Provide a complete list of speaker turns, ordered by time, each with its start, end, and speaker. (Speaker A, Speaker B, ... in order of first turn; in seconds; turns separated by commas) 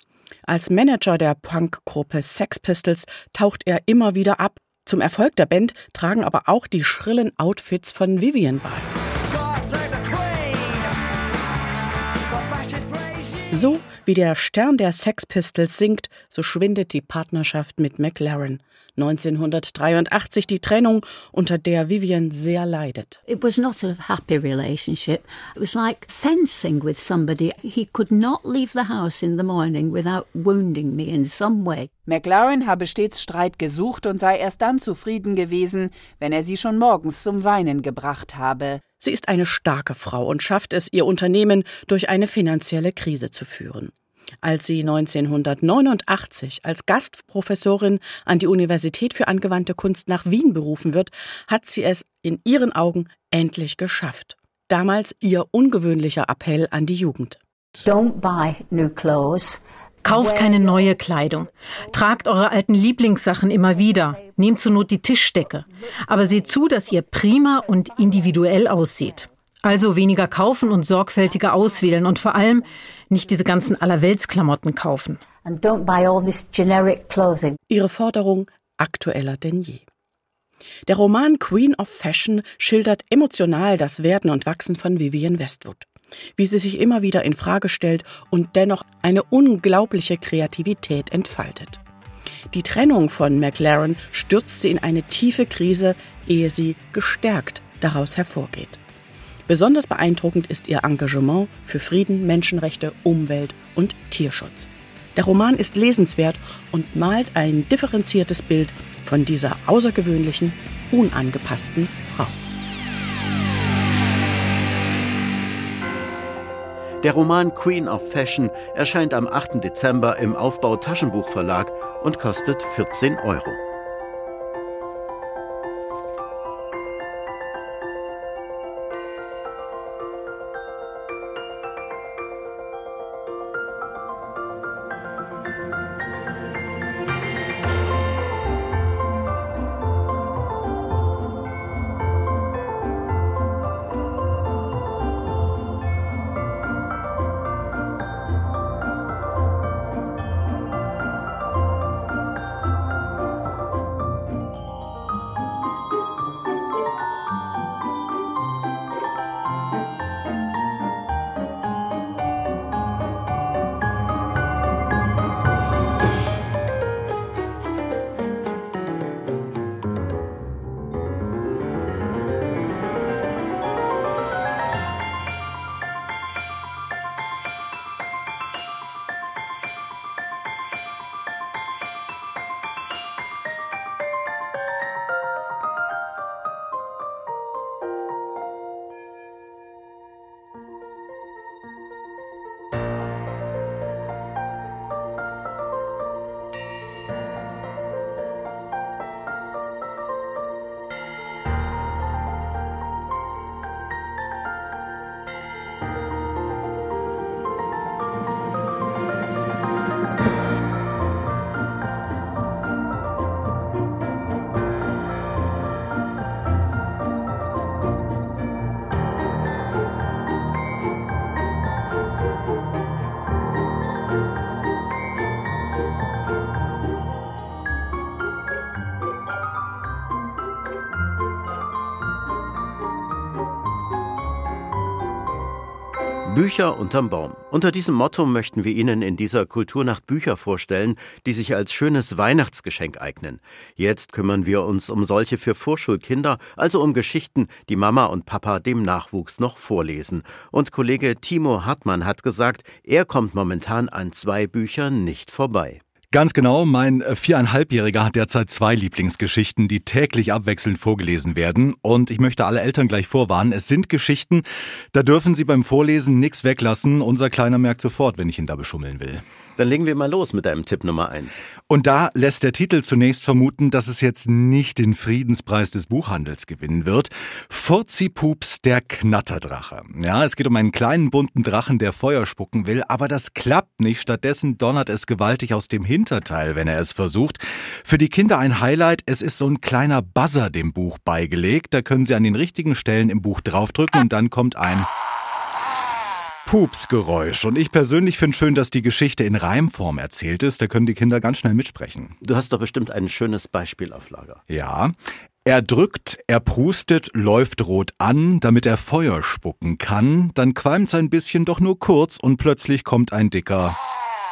Speaker A: 0.5-8.9, Speaker A: 13.5-23.2, Speaker B: 23.3-32.0, Speaker C: 32.0-38.8, Speaker A: 39.0-57.4, Speaker B: 57.8-60.7, Speaker D: 60.0-75.3, Speaker B: 75.3-77.6, Speaker A: 77.7-79.8, Speaker A: 80.9-91.8, Speaker A: 92.5-98.8, Speaker A: 99.5-112.4, Speaker E: 117.0-123.6, Speaker E: 236.2-255.8, Speaker F: 256.1-269.2, Speaker E: 269.6-271.4, Speaker F: 271.7-294.9, Speaker F: 296.5-302.2, Speaker E: 302.2-304.4, Speaker F: 304.5-313.8